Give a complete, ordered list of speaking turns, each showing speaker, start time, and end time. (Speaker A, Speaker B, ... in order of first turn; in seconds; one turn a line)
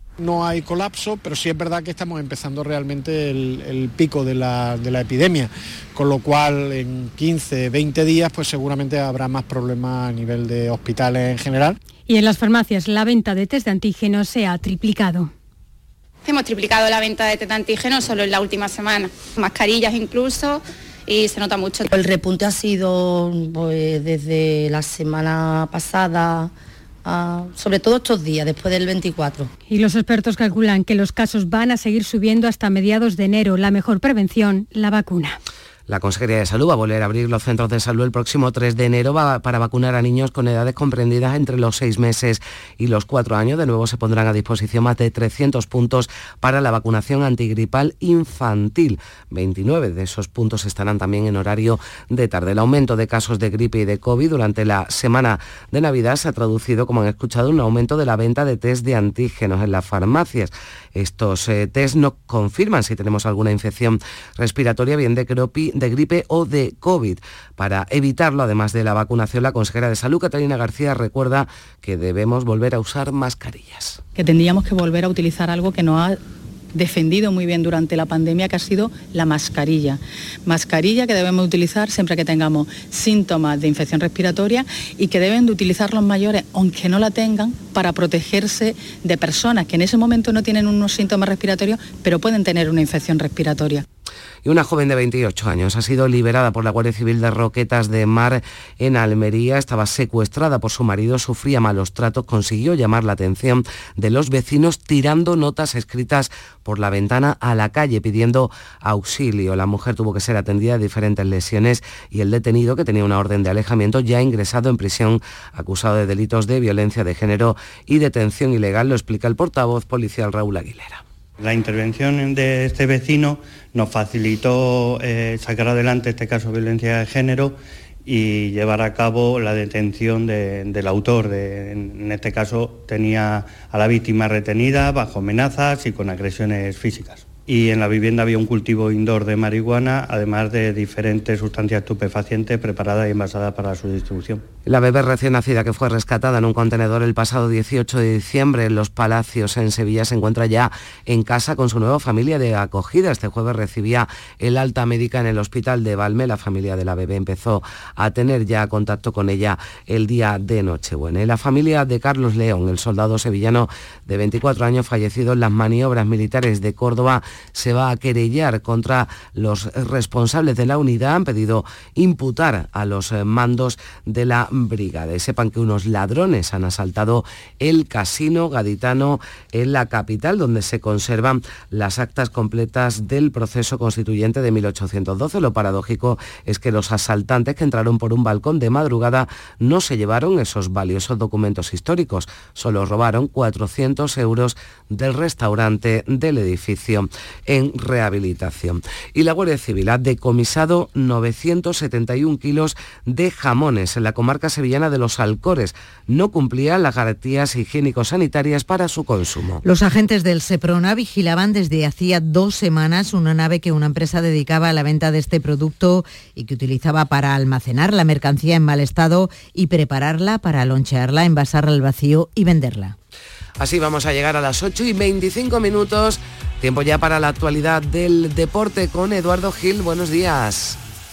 Speaker A: 0.2-11.8
Speaker B: 12.1-15.3
Speaker C: 16.2-21.9
Speaker D: 21.9-26.5
Speaker D: 27.0-29.5
Speaker B: 29.7-35.4
Speaker E: 35.9-74.0
Speaker F: 74.2-76.2
Speaker F: 76.7-93.8
Speaker E: 94.4-121.0
Speaker G: 121.4-144.4
Speaker E: 144.7-209.6
Speaker H: 209.6-222.9
Speaker E: 223.6-230.8